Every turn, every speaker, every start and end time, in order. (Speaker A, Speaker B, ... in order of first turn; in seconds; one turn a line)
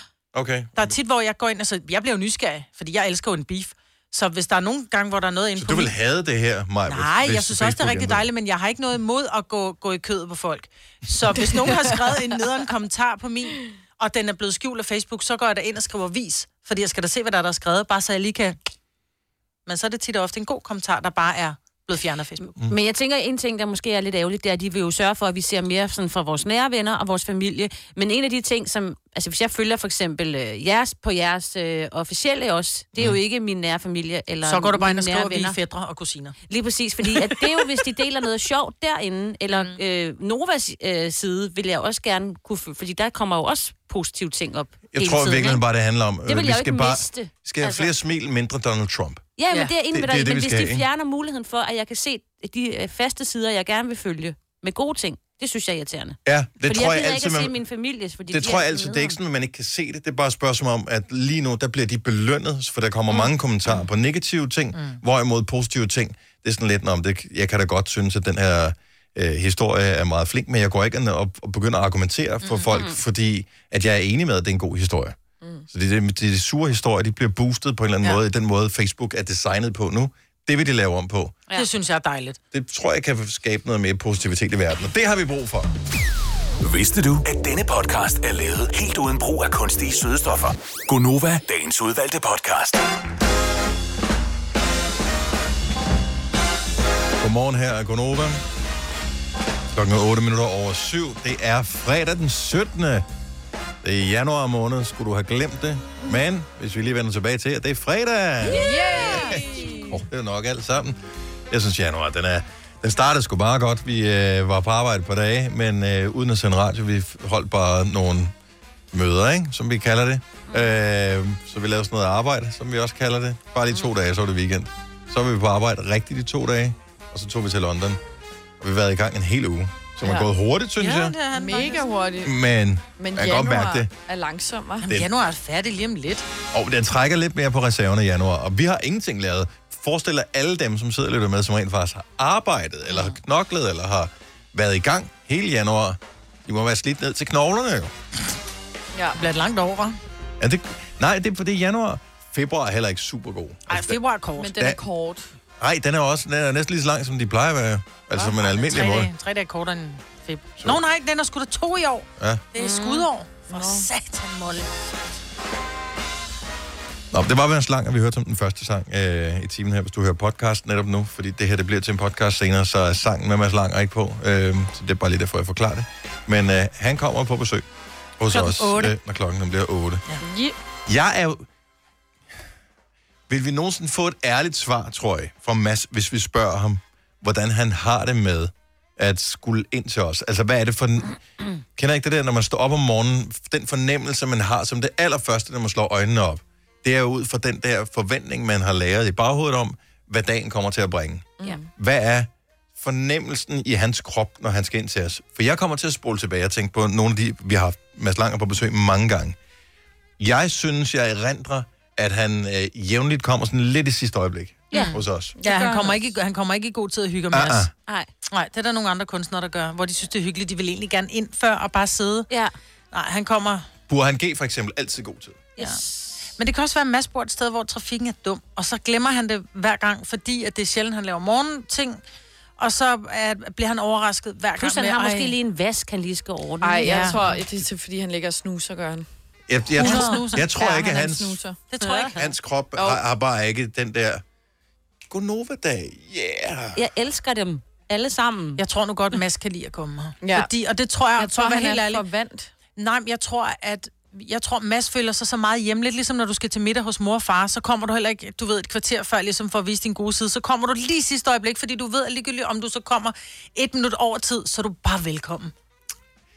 Speaker A: 0.3-0.9
Speaker B: 0.8-5.9
Speaker A: 5.6-8.3
Speaker B: 6.9-18.6
Speaker B: 19.6-22.5
Speaker C: 22.6-35.6
Speaker B: 34.4-36.4
Speaker C: 36.5-45.6
Speaker B: 37.0-37.6
Speaker B: 39.5-39.8
Speaker A: 44.9-49.2
Speaker C: 46.2-47.9
Speaker C: 49.4-59.2
Speaker A: 49.9-50.9
Speaker A: 56.2-57.5
Speaker A: 58.3-75.2
Speaker B: 64.8-65.0
Speaker B: 72.4-72.7
Speaker C: 72.7-73.0
Speaker D: 75.4-75.7
Speaker A: 75.7-81.4
Speaker B: 81.5-82.4
Speaker A: 82.5-85.7
Speaker E: 86.6-92.8
Speaker A: 97.2-98.4
Speaker A: 99.7-103.1
Speaker A: 103.8-111.0
Speaker D: 108.4-110.0
Speaker C: 109.0-109.4
Speaker A: 111.5-118.3
Speaker A: 118.9-128.0
Speaker C: 120.5-120.7
Speaker A: 128.6-131.2
Speaker B: 130.8-131.9
Speaker D: 131.3-132.4
Speaker A: 132.2-133.9
Speaker D: 133.0-134.9
Speaker A: 134.9-135.1
Speaker B: 134.9-136.2
Speaker A: 136.5-147.9
Speaker B: 142.9-143.2
Speaker D: 148.9-149.2
Speaker B: 149.2-150.0
Speaker A: 150.4-154.0
Speaker B: 153.7-154.6
Speaker D: 154.4-155.3
Speaker A: 155.6-159.1
Speaker B: 158.2-164.7
Speaker A: 162.2-162.4
Speaker C: 162.6-163.1
Speaker D: 163.5-163.9
Speaker A: 167.1-177.7
Speaker A: 178.2-180.0
Speaker B: 178.3-178.9
Speaker D: 180.2-180.6
Speaker A: 180.9-181.4
Speaker A: 183.3-191.2
Speaker A: 191.7-209.4
Speaker D: 201.4-201.7
Speaker A: 210.2-215.3
Speaker C: 214.7-215.0
Speaker B: 214.7-217.7
Speaker D: 215.4-215.9
Speaker A: 217.3-217.7
Speaker B: 218.3-222.3
Speaker B: 222.9-223.7
Speaker A: 223.9-225.4
Speaker C: 225.6-226.3
Speaker B: 226.4-232.0
Speaker B: 232.6-235.4
Speaker C: 234.6-237.3
Speaker D: 236.6-239.1
Speaker B: 236.8-237.2
Speaker A: 239.5-241.4
Speaker B: 239.8-240.7
Speaker D: 239.8-241.6
Speaker B: 241.7-242.3
Speaker C: 241.8-242.2
Speaker A: 242.1-244.2
Speaker D: 242.8-243.0
Speaker A: 245.1-246.8
Speaker C: 246.7-248.6
Speaker B: 248.6-252.1
Speaker D: 250.2-250.5
Speaker D: 251.2-252.5
Speaker B: 252.8-265.5